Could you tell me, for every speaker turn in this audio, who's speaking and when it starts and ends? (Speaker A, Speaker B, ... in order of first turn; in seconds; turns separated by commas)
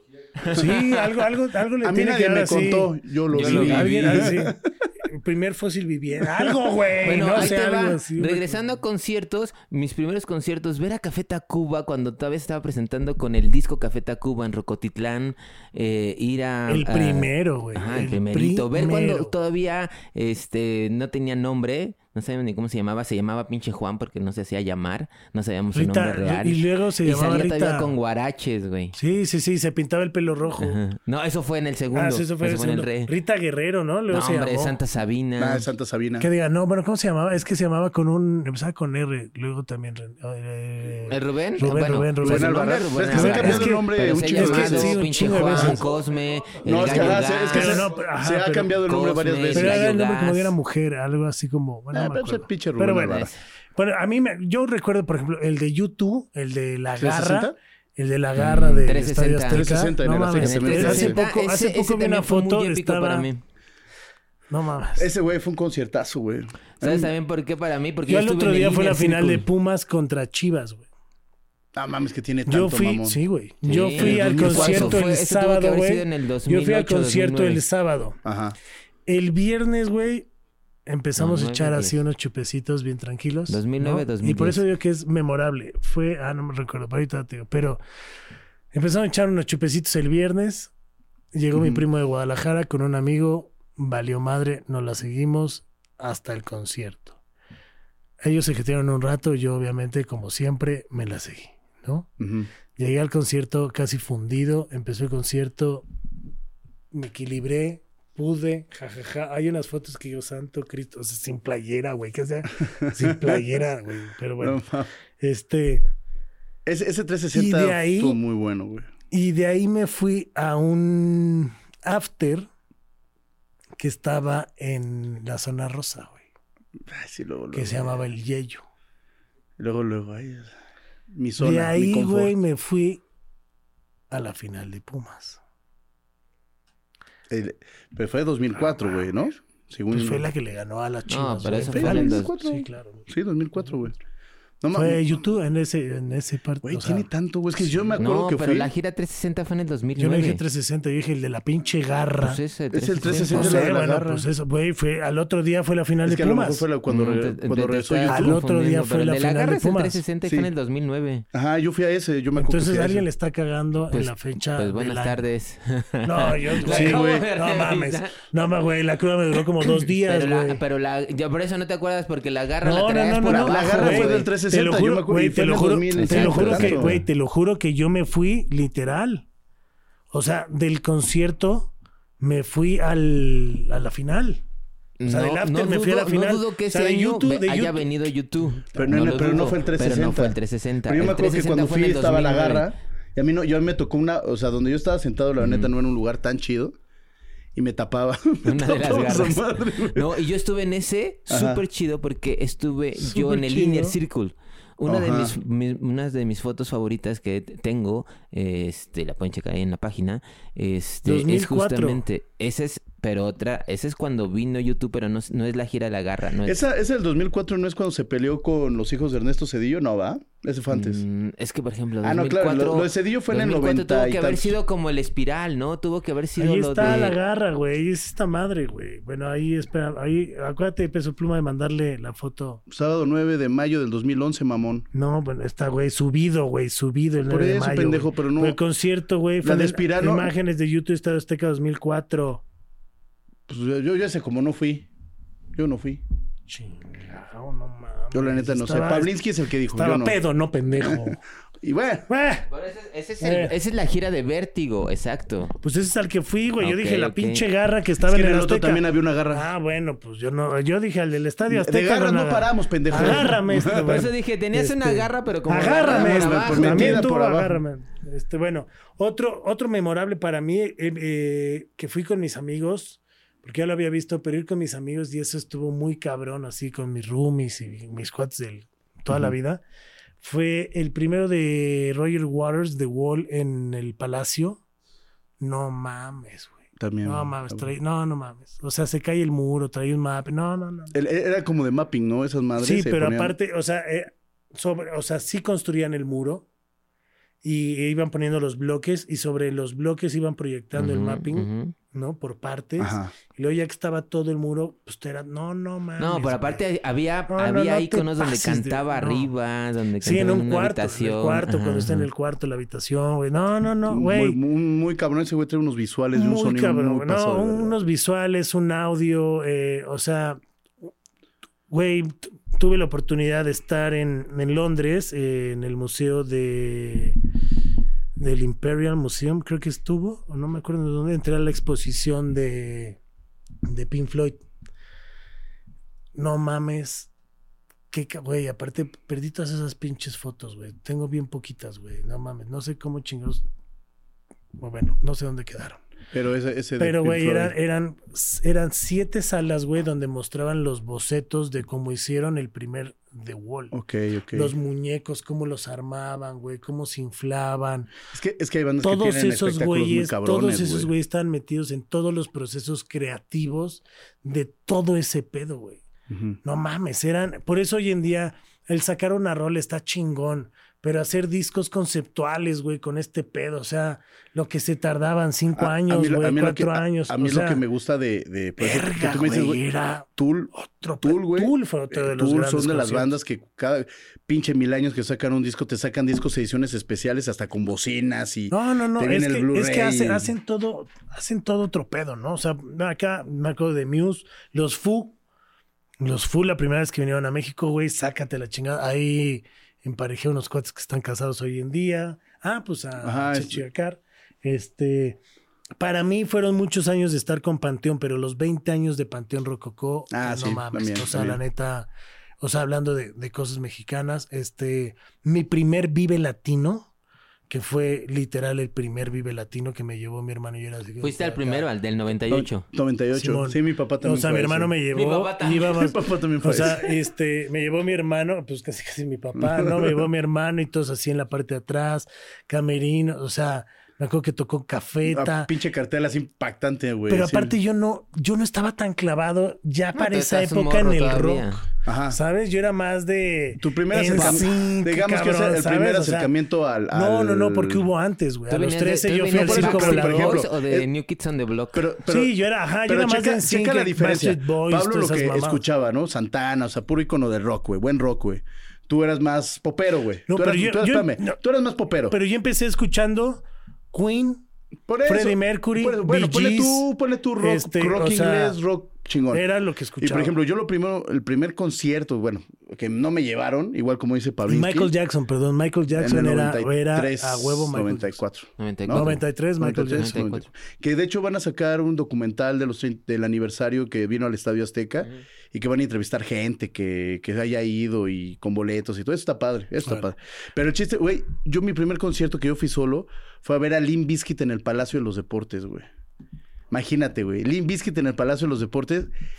Speaker A: 0.4-1.0, Speaker B: 0.5-8.6, Speaker C: 1.8-4.6, Speaker A: 3.3-4.4, Speaker A: 7.0-28.9, Speaker B: 16.7-19.3, Speaker B: 25.7-27.9, Speaker B: 28.9-30.8, Speaker A: 30.6-33.1, Speaker B: 31.9-34.8, Speaker A: 34.1-35.7, Speaker C: 35.4-36.3, Speaker B: 36.2-45.8, Speaker A: 41.1-47.9, Speaker C: 42.2-45.9, Speaker C: 46.6-49.9, Speaker B: 46.8-48.7, Speaker A: 48.8-50.5, Speaker B: 49.5-63.3, Speaker C: 51.9-53.3, Speaker C: 57.0-57.5, Speaker A: 58.4-59.7, Speaker C: 59.5-61.2, Speaker A: 60.4-63.4, Speaker B: 64.5-65.1, Speaker C: 65.0-67.1, Speaker A: 66.8-69.5, Speaker B: 68.1-70.8, Speaker C: 71.7-73.2, Speaker B: 72.5-78.2, Speaker A: 73.6-77.6, Speaker C: 73.7-75.0, Speaker C: 78.2-78.5, Speaker B: 79.0-80.3, Speaker B: 80.8-87.8, Speaker A: 81.2-82.0, Speaker A: 83.5-84.6, Speaker B: 88.7-90.7, Speaker B: 91.3-97.2, Speaker C: 91.5-91.8, Speaker B: 98.2-102.1, Speaker C: 102.2-102.5, Speaker B: 102.8-105.8, Speaker B: 106.9-114.6, Speaker C: 112.6-113.4, Speaker C: 114.4-114.9, Speaker B: 115.2-115.8, Speaker C: 116.6-118.9, Speaker B: 117.3-118.2, Speaker B: 119.1-122.5, Speaker B: 123.8-126.2, Speaker C: 126.9-128.0, Speaker B: 127.5-128.6, Speaker C: 129.6-130.5, Speaker C: 131.1-132.3, Speaker B: 131.4-133.0, Speaker B: 134.1-135.4, Speaker C: 137.3-140.3, Speaker B: 139.9-143.1, Speaker A: 141.1-142.3, Speaker C: 141.7-144.0, Speaker C: 144.6-145.2, Speaker B: 144.7-147.1, Speaker C: 146.6-148.7, Speaker A: 148.0-150.4, Speaker B: 150.0-152.4, Speaker A: 152.2-153.8, Speaker C: 152.7-154.2, Speaker B: 153.1-156.7, Speaker C: 156.0-158.4, Speaker A: 156.9-161.2, Speaker B: 158.1-160.0, Speaker C: 160.2-160.5, Speaker C: 161.3-163.0, Speaker B: 162.3-165.2, Speaker A: 163.9-168.2, Speaker B: 166.0-170.6, Speaker C: 166.6-167.2, Speaker A: 169.6-174.2, Speaker B: 172.6-179.2, Speaker C: 173.3-176.9, Speaker A: 175.9-177.0, Speaker B: 180.1-184.4, Speaker A: 185.0-192.7, Speaker B: 185.1-187.9, Speaker C: 188.7-196.7, Speaker A: 195.4-195.7, Speaker C: 197.5-200.2, Speaker A: 198.4-216.6, Speaker C: 201.3-201.6, Speaker B: 203.0-203.9, Speaker C: 204.9-205.3, Speaker B: 211.0-212.0, Speaker C: 216.4-221.0, Speaker A: 220.7-227.2, Speaker C: 222.0-224.6, Speaker B: 226.4-232.6, Speaker C: 232.7-234.9, Speaker B: 234.9-242.4, Speaker C: 237.3-238.6, Speaker C: 239.4-240.3, Speaker C: 243.5-244.9, Speaker C: 245.5-246.0, Speaker B: 246.5-249.2, Speaker C: 248.1-250.2, Speaker B: 249.7-251.2, Speaker C: 250.8-252.1, Speaker B: 252.1-252.5, Speaker A: 252.5-255.6, Speaker B: 253.2-253.5, Speaker B: 255.6-279.6, Speaker A: 256.6-257.4, Speaker C: 258.0-259.5, Speaker C: 261.5-264.1, Speaker A: 263.0-267.0, Speaker C: 265.9-267.6, Speaker B: 280.2-284.6, Speaker B: 285.4-290.9, Speaker C: 286.8-287.7, Speaker C: 290.9-293.3, Speaker B: 292.6-296.4, Speaker B: 297.4-306.6, Speaker A: 300.7-301.7, Speaker C: 302.8-303.1, Speaker A: 306.0-312.1, Speaker B: 307.3-309.3, Speaker B: 310.0-314.4, Speaker C: 313.9-317.8, Speaker B: 316.1-320.4, Speaker B: 321.7-327.1, Speaker B: 328.2-333.0, Speaker B: 333.6-334.4, Speaker B: 336.1-337.1, Speaker B: 337.9-343.4, Speaker B: 344.6-345.8, Speaker C: 346.1-347.5, Speaker B: 346.8-353.8, Speaker C: 353.7-354.5, Speaker B: 354.3-357.9, Speaker C: 358.1-360.9, Speaker B: 358.8-365.8, Speaker C: 366.1-366.4, Speaker B: 366.4-377.6, Speaker C: 375.6-390.3, Speaker B: 378.6-383.1, Speaker B: 388.5-395.2, Speaker B: 396.0-405.2, Speaker C: 403.0-403.6, Speaker B: 405.8-411.9, Speaker C: 410.1-411.4, Speaker B: 412.4-416.9, Speaker B: 417.5-421.6, Speaker A: 421.0-422.7, Speaker C: 422.3-424.7, Speaker B: 423.1-435.5, Speaker A: 424.9-425.8, Speaker C: 425.7-426.9, Speaker C: 429.3-430.1, Speaker C: 435.1-437.5, Speaker B: 437.1-446.3, Speaker A: 439.9-441.6, Speaker C: 441.8-442.2, Speaker C: 443.6-447.9, Speaker A: 444.1-444.4, Speaker B: 446.9-450.4, Speaker A: 448.5-451.9, Speaker C: 449.3-450.9, Speaker C: 451.7-452.3, Speaker B: 452.1-455.6, Speaker C: 452.9-462.1, Speaker B: 460.3-461.4, Speaker B: 462.1-464.4, Speaker C: 464.9-469.4, Speaker B: 465.0-468.6, Speaker B: 469.3-470.3, Speaker C: 470.0-474.9, Speaker B: 474.5-478.2, Speaker C: 475.9-495.9, Speaker A: 478.6-479.2, Speaker B: 478.9-480.3, Speaker A: 479.9-480.4, Speaker C: 496.7-499.1